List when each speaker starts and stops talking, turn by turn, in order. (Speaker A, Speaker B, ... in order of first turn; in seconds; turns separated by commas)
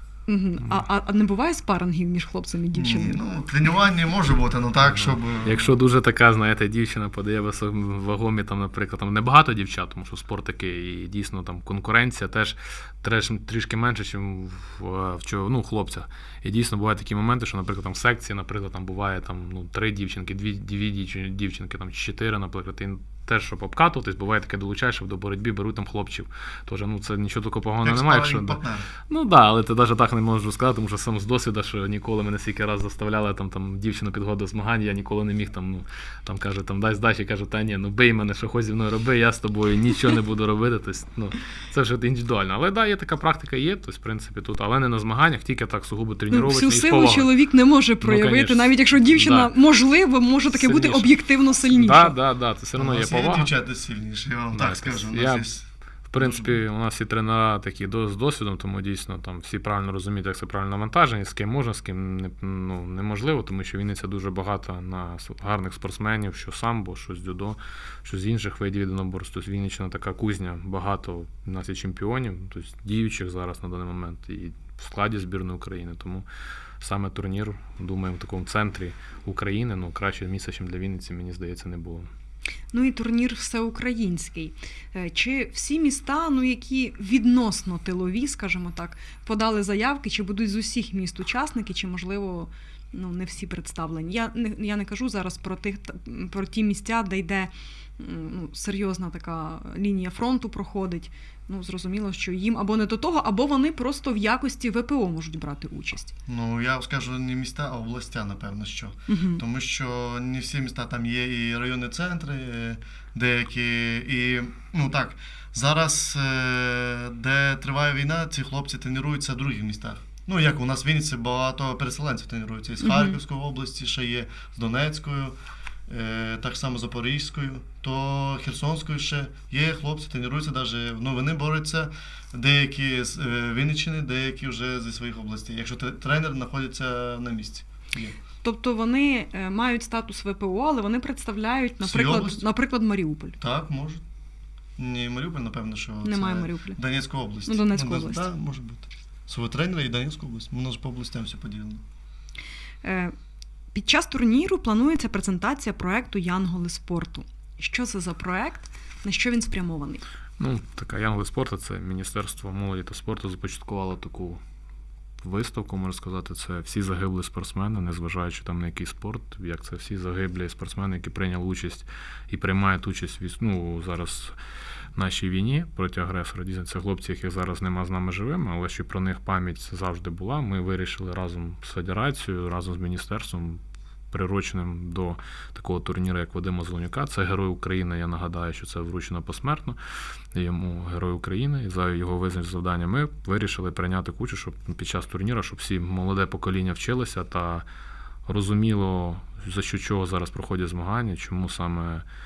Speaker A: 0.3-3.2, Speaker B: 2.8-5.7, Speaker C: 5.0-47.3, Speaker B: 27.8-28.9, Speaker A: 46.3-52.2, Speaker C: 48.0-49.5, Speaker C: 50.5-53.5, Speaker B: 52.8-55.6, Speaker C: 54.5-55.5, Speaker C: 56.1-76.2, Speaker B: 56.2-56.6, Speaker C: 76.8-82.1, Speaker A: 82.7-106.1, Speaker B: 106.3-125.4, Speaker A: 109.1-109.4, Speaker A: 122.8-123.2, Speaker B: 125.9-138.2, Speaker A: 138.4-143.4, Speaker B: 141.8-142.4, Speaker B: 143.4-144.0, Speaker B: 144.8-151.8, Speaker A: 146.0-146.8, Speaker A: 147.5-148.3, Speaker A: 152.8-153.2, Speaker A: 153.7-160.0, Speaker C: 160.4-164.4, Speaker C: 165.2-174.3, Speaker C: 174.9-189.8, Speaker C: 190.3-197.7, Speaker C: 198.3-202.0